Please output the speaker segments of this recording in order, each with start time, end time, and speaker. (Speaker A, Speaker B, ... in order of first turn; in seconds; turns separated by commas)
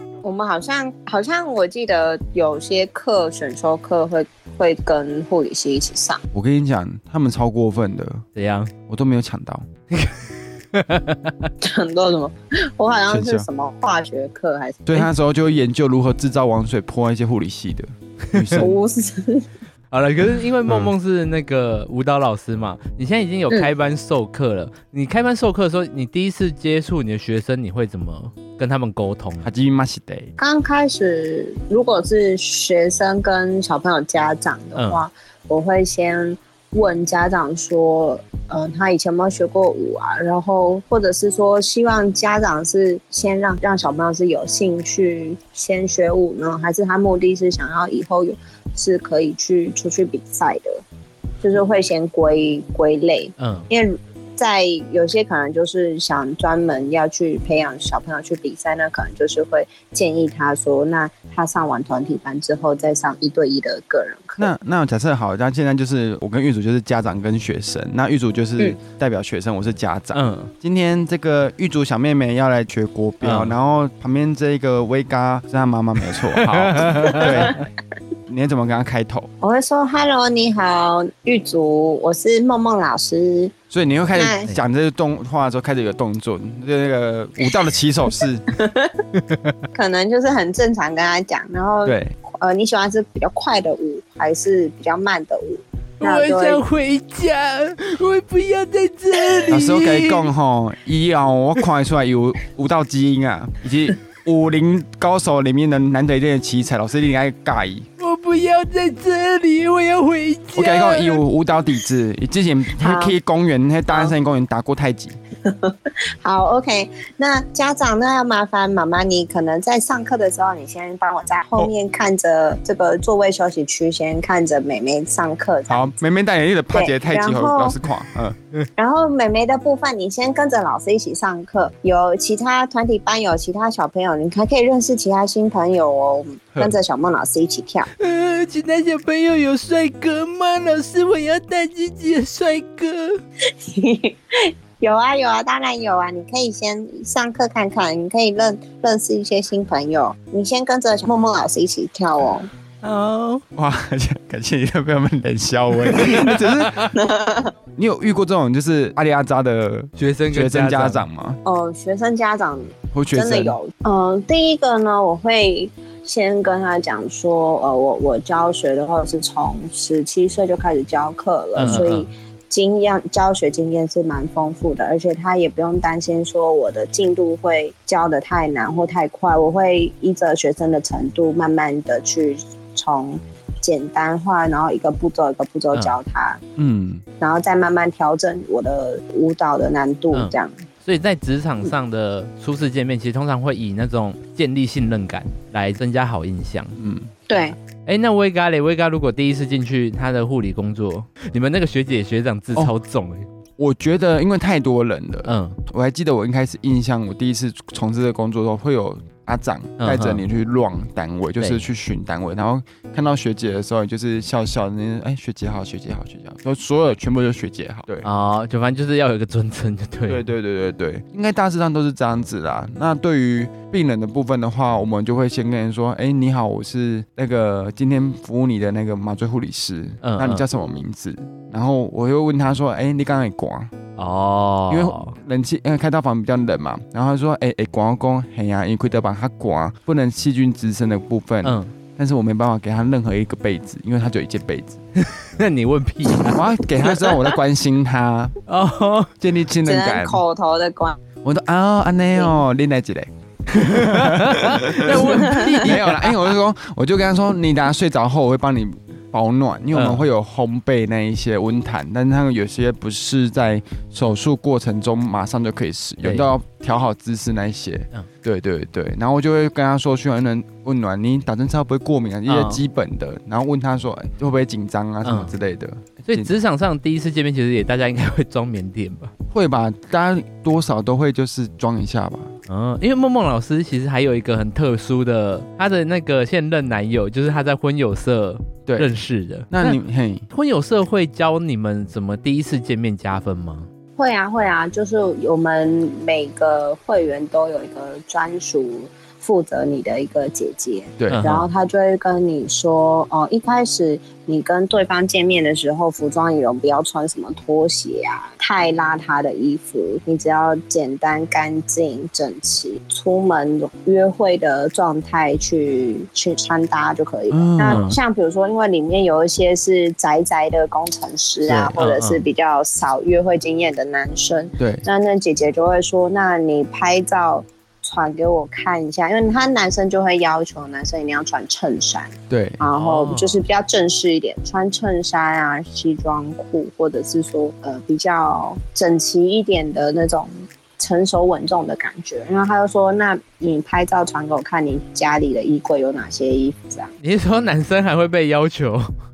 Speaker A: 0.2-6.2, Speaker B: 6.3-8.2, Speaker C: 8.3-8.7, Speaker B: 8.9-9.7, Speaker C: 9.9-11.5, Speaker A: 11.6-15.1, Speaker B: 13.1-13.5, Speaker B: 14.9-18.8, Speaker C: 18.3-18.6, Speaker A: 18.6-19.4, Speaker C: 19.9-29.5, Speaker B: 20.7-20.9, Speaker B: 29.4-30.3, Speaker A: 30.4-50.8, Speaker A: 51.4-64.5, Speaker C: 53.4-53.7, Speaker B: 64.4-77.6, Speaker C: 70.1-70.5, Speaker C: 73.2-73.5, Speaker C: 76.3-77.6, Speaker A: 77.1-77.5, Speaker B: 78.3-79.3, Speaker A: 79.4-83.5, Speaker B: 83.7-88.4, Speaker A: 84.1-84.5, Speaker A: 88.5-89.0, Speaker A: 89.7-96.6, Speaker B: 91.8-92.1, Speaker C: 96.0-100.3, Speaker B: 99.5-107.9, Speaker C: 108.0-111.2, Speaker B: 110.5-115.2, Speaker A: 112.8-113.1, Speaker A: 113.9-114.1, Speaker A: 115.4-125.9, Speaker B: 125.7-128.4, Speaker A: 126.7-127.8, Speaker A: 128.8-137.9, Speaker C: 138.0-143.2, Speaker A: 143.5-152.5, Speaker C: 152.8-153.4, Speaker B: 153.5-156.9, Speaker C: 156.3-156.9, Speaker A: 156.9-157.5, Speaker B: 157.8-161.4, Speaker C: 160.0-161.1, Speaker A: 161.4-186.4, Speaker B: 162.9-163.6, Speaker C: 171.6-172.1, Speaker B: 171.6-171.9, Speaker B: 186.6-187.0, Speaker A: 187.2-190.6, Speaker C: 190.1-196.8, Speaker B: 196.8-197.1, Speaker A: 197.3-197.6, Speaker C: 197.9-203.3, Speaker B: 203.6-218.1, Speaker C: 205.3-205.6, Speaker C: 209.8-210.2, Speaker C: 211.4-211.6, Speaker C: 218.0-220.2, Speaker B: 220.1-233.7, Speaker C: 230.0-230.4, Speaker C: 234.0-235.2, Speaker B: 234.7-244.8, Speaker C: 241.4-241.7, Speaker C: 245.0-246.5, Speaker B: 246.3-248.4, Speaker C: 248.5-249.1, Speaker B: 249.2-250.2, Speaker A: 249.6-251.0, Speaker B: 251.2-276.3, Speaker C: 253.7-256.3, Speaker A: 255.1-255.6, Speaker C: 259.7-260.0, Speaker C: 266.0-266.3, Speaker C: 272.3-272.6, Speaker C: 275.0-275.4, Speaker C: 276.1-279.1, Speaker B: 279.3-282.3, Speaker C: 282.5-289.7, Speaker B: 289.5-290.2, Speaker C: 290.3-293.7, Speaker A: 294.0-346.9, Speaker B: 301.0-301.3, Speaker C: 301.1-301.5, Speaker B: 317.3-317.9, Speaker C: 317.6-318.0, Speaker B: 321.4-321.8, Speaker C: 321.8-322.2, Speaker B: 324.6-324.9, Speaker B: 332.3-332.6, Speaker C: 332.7-333.4, Speaker C: 347.0-348.9